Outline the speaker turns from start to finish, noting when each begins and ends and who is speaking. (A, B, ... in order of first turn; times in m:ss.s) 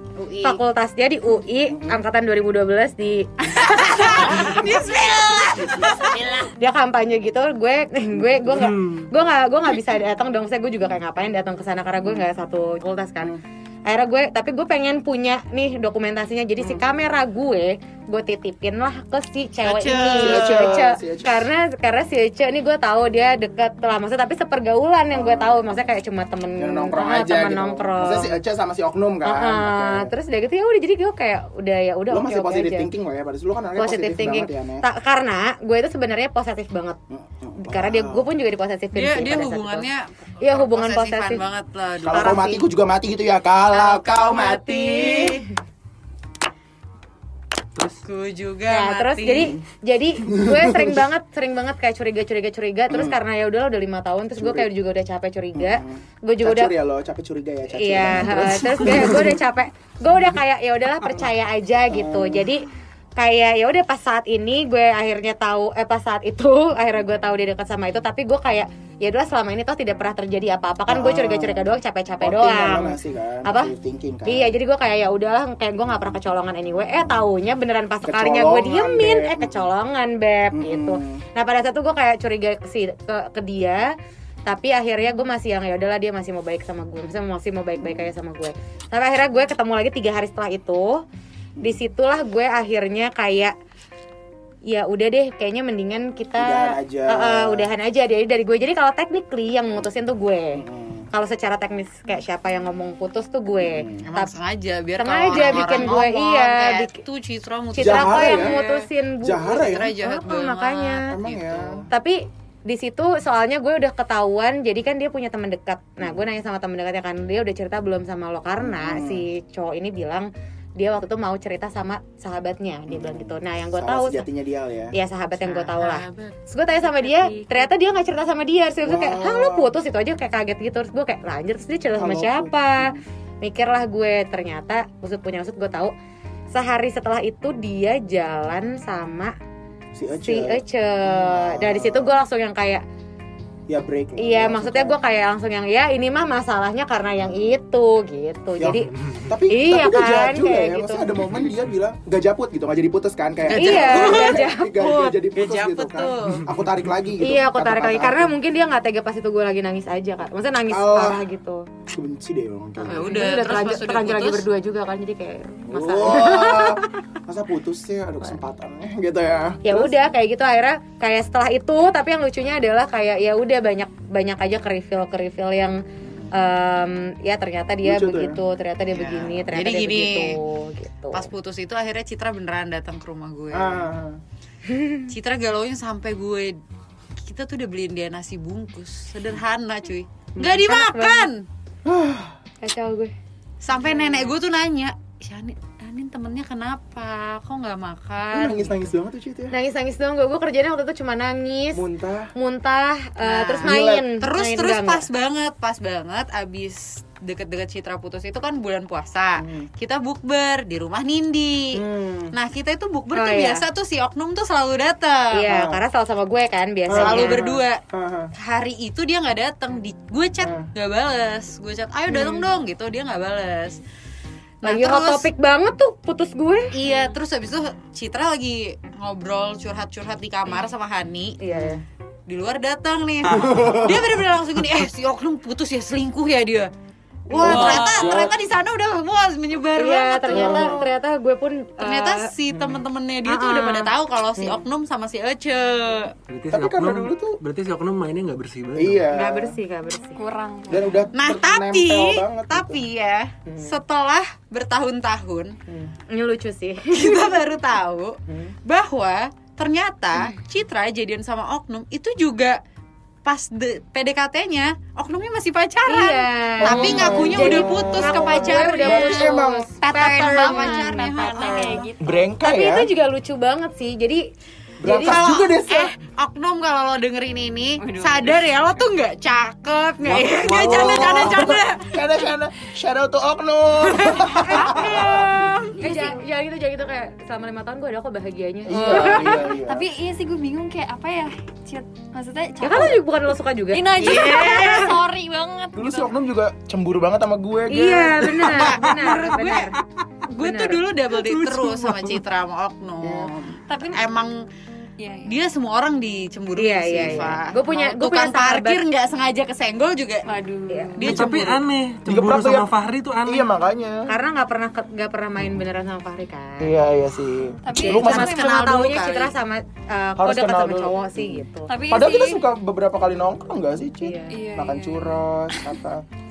0:00.2-0:00.6 A
0:00.4-0:04.6 B
0:01.7-0:02.0 C
0:03.5-0:06.5 A
0:06.5-0:28.4 B
0:19.6-0:20.8 A
0:20.1-0:21.4 C
0:25.1-0:25.6 C
0:26.6-0:30.1 C
0:29.2-0:32.9 B
0:32.1-0:34.8 C
0:33.8-0:37.0 B
0:37.1-0:38.3 C
0:37.6-0:39.9 B
0:38.9-0:42.4 A
0:40.4-0:41.4 B
0:42.0-0:45.4 C
0:42.1-0:42.6 B
0:43.7-0:45.4 A
0:44.4-0:44.7 B
0:48.0-0:49.6 A
0:48.7-0:56.7 B
0:50.2-0:51.0 C
0:52.9-0:53.2 C
0:54.4-0:54.7 C
0:55.5-0:59.4 C
0:57.7-1:02.6 B
1:01.9-1:02.5 C
1:03.2-1:13.7 B
1:10.9-1:14.6 C
1:14.2-1:23.9 B
1:18.0-1:19.5 C
1:20.5-1:21.2 C
1:24.4-1:31.0 B
1:31.6-1:33.5 B
1:34.7-1:44.3 B
1:36.4-1:37.7 C
1:40.6-1:41.1 C
1:43.6-1:44.1 C
1:44.0-1:48.9 A
1:45.0-1:47.0 B
1:45.3-1:45.6 C
1:47.7-1:51.1 B
1:47.8-1:48.6 C
1:49.2-1:50.0 C
1:49.4-1:51.9 A
1:51.0-1:51.9 C
1:51.9-2:04.2 B
1:58.6-1:59.2 C
2:02.9-2:04.9 C
2:04.9-2:15.9 B
2:05.4-2:06.3 A
2:06.8-2:07.7 D
2:08.8-2:09.7 C
2:12.0-2:13.0 C
2:16.5-2:19.3 B
2:19.9-2:22.1 C
2:20.1-2:22.8 B
2:23.7-2:25.0 C
2:24.2-2:28.9 B
2:28.6-2:38.3 C
2:29.5-2:31.1 B
2:33.5-2:36.5 A
2:33.5-2:34.8 B
2:37.2-2:41.7 B
2:40.7-2:41.2 C
2:41.9-2:43.2 C
2:42.8-2:44.4 A
2:42.9-2:47.0 B
2:45.7-2:49.9 C
2:49.6-2:55.8 B
2:56.3-3:01.3 B
2:57.8-2:58.4 C
2:58.9-3:00.4 A
3:01.1-3:03.8 A
3:03.5-3:04.2 C
3:04.7-3:05.1 B
3:05.1-3:06.6 A
3:07.2-3:11.5 A
3:10.4-3:11.3 B
3:11.8-3:12.4 C
3:12.6-3:13.1 B
3:13.6-3:18.8 A
3:18.3-3:19.5 C
3:19.5-3:21.8 B
3:21.7-3:22.3 C
3:22.3-3:25.0 B
3:23.2-3:35.5 A
3:23.6-3:24.0 C
3:29.4-3:29.7 C
3:31.7-3:32.3 C
3:33.1-3:33.6 B
3:35.3-3:37.5 B
3:35.4-3:35.8 C
3:36.9-3:38.3 C
3:36.9-3:37.8 A
3:38.4-3:43.8 A
3:40.4-3:40.7 C
3:42.1-3:42.4 B
3:44.6-3:45.3 A
3:44.6-3:46.7 B
3:46.7-3:51.4 A
3:51.4-3:51.8 B
3:52.3-3:56.7 A
3:53.3-3:54.0 C
3:57.3-3:58.2 B
3:57.3-4:00.8 A
3:57.3-3:58.4 C
3:57.6-3:58.0 D
3:59.8-4:02.3 B
4:00.3-4:00.8 C
4:01.8-4:06.1 A
4:03.2-4:03.9 B
4:04.4-4:04.6 C
4:06.3-4:09.1 E
4:06.5-4:07.4 C
4:08.7-4:09.6 C
4:09.1-4:10.2 B
4:10.2-4:11.0 D
4:10.7-4:12.8 C
4:11.1-4:15.6 A
4:13.4-4:13.8 C
4:15.7-4:15.9 C
4:16.1-4:17.4 B
4:16.9-4:22.6 A
4:18.3-4:18.5 C
4:23.2-4:31.9 A
4:25.9-4:31.8 B
4:26.6-4:30.1 C
4:30.1-4:32.3 D
4:32.0-4:32.9 C
4:32.4-4:34.2 B
4:34.8-4:35.9 C
4:34.8-4:35.2 B
4:34.9-4:42.0 A
4:37.8-4:38.5 D
4:40.1-4:45.4 C
4:40.2-4:41.1 E
4:40.6-4:41.5 D
4:44.0-4:45.9 A
4:44.5-4:49.5 B
4:45.8-4:46.2 D
4:48.6-4:49.9 C
4:48.9-4:53.0 D
4:52.6-4:55.0 B
4:53.7-4:56.1 D
4:55.7-4:59.5 C
4:57.7-4:59.7 B
4:58.4-4:59.7 A
5:00.3-5:04.4 A
5:00.4-5:00.9 B
5:01.6-5:02.0 E
5:03.0-5:03.5 C
5:03.7-5:04.1 D
5:05.0-5:05.4 D
5:05.2-5:10.2 A
5:06.5-5:08.8 B
5:07.0-5:07.4 C
5:10.2-5:11.1 D
5:10.7-5:11.0 B
5:11.0-5:11.6 A
5:11.0-5:13.5 E
5:11.1-5:11.4 C
5:12.0-5:12.7 C
5:13.2-5:14.1 C
5:14.1-5:16.8 B
5:16.6-5:18.3 C
5:17.6-5:19.0 D
5:17.8-5:21.7 B
5:17.8-5:19.3 A
5:20.2-5:26.0 C
5:21.7-5:22.4 D
5:24.0-5:24.4 B
5:24.3-5:25.7 D